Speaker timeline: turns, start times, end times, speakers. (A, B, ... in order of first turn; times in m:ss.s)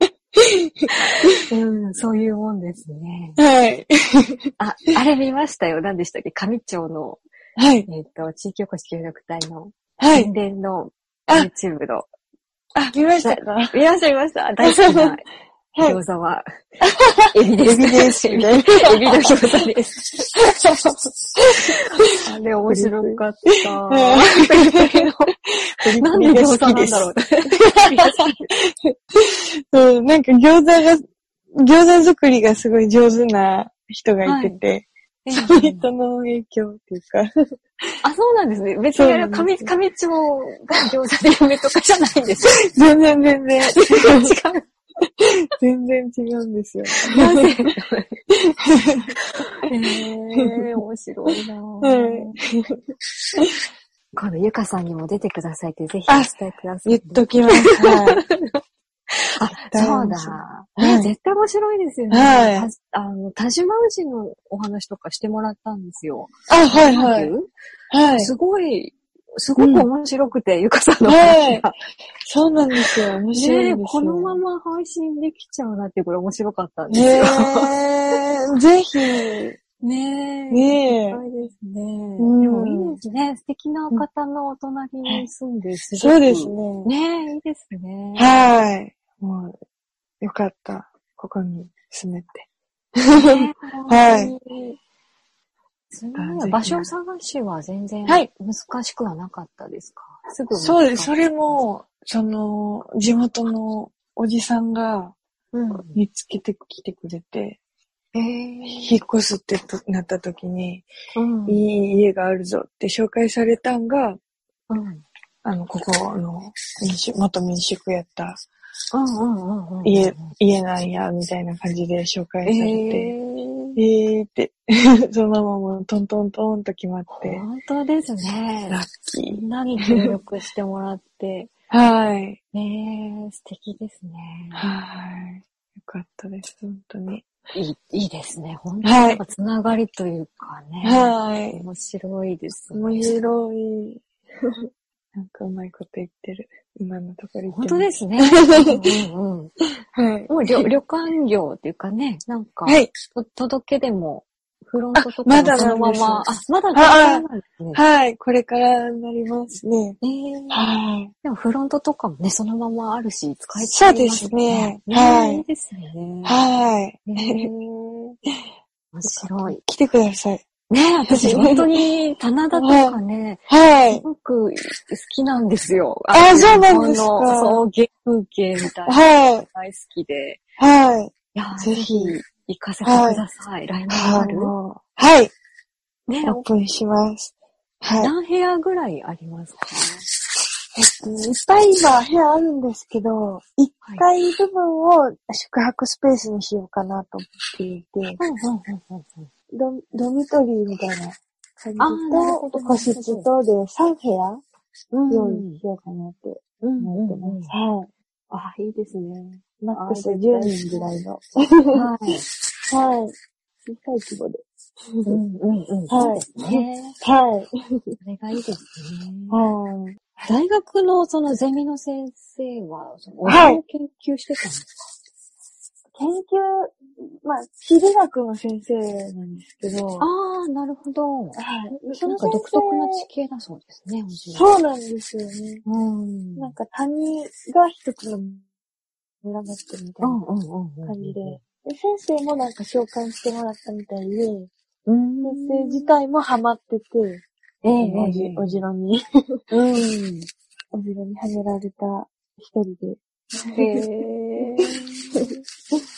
0:00.6-0:01.3 A
0:01.4-0:03.4 B
0:03.4-0:04.4 A
0:04.6-0:07.2 B
0:07.6-0:07.9 A
0:07.9-0:12.1 B
0:10.0-0:10.3 A
0:12.8-0:13.8 A
0:13.2-0:15.2 B
0:14.6-0:15.1 A
0:15.8-0:16.0 A
0:15.8-0:16.4 B
0:16.8-0:19.0 A
0:17.3-0:20.3 B
0:20.4-0:20.7 A
0:21.7-0:25.3 B
0:22.7-0:23.2 A
0:23.9-0:28.0 A
0:26.0-0:28.5 B
0:28.6-0:31.1 A
0:31.6-0:37.3 A
0:34.2-0:34.6 B
0:35.2-0:35.9 B
0:38.0-0:42.7 B
0:38.9-0:39.7 A
0:42.5-0:44.3 A
0:43.8-0:44.6 B
0:45.6-0:47.4 A
0:47.1-0:48.2 B
0:48.7-0:49.0 A
0:49.7-0:52.3 B
0:50.4-0:50.7 A
0:51.8-0:52.4 A
0:54.2-0:58.6 B
0:56.8-0:58.2 A
0:59.4-1:07.5 B
0:59.5-1:01.1 A
1:02.1-1:02.7 A
1:06.5-1:07.3 A
1:07.9-1:08.4 A
1:08.2-1:11.8 B
1:09.6-1:09.9 A
1:11.0-1:11.7 A
1:12.2-1:14.4 A
1:13.3-1:18.2 B
1:16.9-1:19.6 A
1:19.8-1:28.4 B
1:20.5-1:21.2 A
1:22.2-1:23.0 A
1:26.0-1:26.9 A
1:28.2-1:29.6 A
1:30.2-1:32.5 A
1:33.0-1:34.3 A
1:33.1-1:34.8 B
1:35.9-1:41.1 B
1:36.2-1:36.9 A
1:40.6-1:45.2 A
1:45.5-1:46.0 B
1:46.0-1:47.6 A
1:48.2-1:49.0 B
1:48.6-1:50.9 A
1:51.2-1:51.6 B
1:51.5-1:54.2 A
1:54.7-1:55.0 B
1:55.4-1:58.4 A
1:58.9-2:00.3 B
1:59.8-2:03.1 A
2:02.4-2:03.8 B
2:03.8-2:07.4 A
2:07.1-2:11.5 B
2:08.7-2:10.2 A
2:11.7-2:12.4 A
2:12.5-2:14.6 B
2:14.5-2:17.2 A
2:17.5-2:23.1 B
2:18.8-2:19.2 A
2:20.8-2:21.6 A
2:22.7-2:24.0 A
2:25.2-2:28.8 A
2:27.5-2:29.5 B
2:29.9-2:30.7 A
2:30.3-2:37.8 B
2:32.7-2:32.9 A
2:35.0-2:40.0 A
2:40.0-2:40.6 B
2:40.5-2:41.1 A
2:41.2-2:46.4 B
2:43.6-2:45.4 A
2:46.2-2:47.5 A
2:47.1-2:48.2 B
2:48.9-2:49.6 B
2:49.1-2:50.4 A
2:50.7-3:00.4 B
2:51.1-2:51.7 A
2:52.5-2:54.0 A
2:56.1-2:57.6 A
2:58.9-2:59.5 A
3:00.6-3:02.2 A
3:01.3-3:04.5 B
3:02.8-3:03.2 A
3:03.9-3:05.3 A
3:06.1-3:06.4 B
3:06.2-3:08.1 A
3:08.0-3:10.0 B
3:10.8-3:18.2 A
3:18.2-3:19.3 B
3:19.5-3:24.4 A
3:21.8-3:23.3 B
3:24.9-3:25.6 B
3:25.1-3:27.9 A
3:26.6-3:27.5 B
3:28.3-3:30.9 B
3:29.6-3:31.9 A
3:31.7-3:32.3 B
3:32.7-3:33.1 A
3:33.6-3:34.4 A
3:35.1-3:37.0 B
3:35.9-3:37.5 A
3:38.0-3:39.4 B
3:39.3-3:40.3 A
3:40.3-3:44.8 B
3:43.2-3:43.6 A
3:46.0-3:50.1 A
3:50.0-3:54.6 B
3:51.4-3:53.1 A
3:54.3-3:55.6 A
3:55.6-3:56.5 B
3:56.4-3:58.4 A
3:59.2-4:00.2 A
4:00.0-4:01.4 B
4:00.8-4:04.5 A
4:04.9-4:06.0 B
4:05.2-4:07.2 A
4:07.6-4:08.6 B
4:07.8-4:09.0 A
4:09.5-4:10.3 B
4:10.7-4:13.7 A
4:13.6-4:15.3 B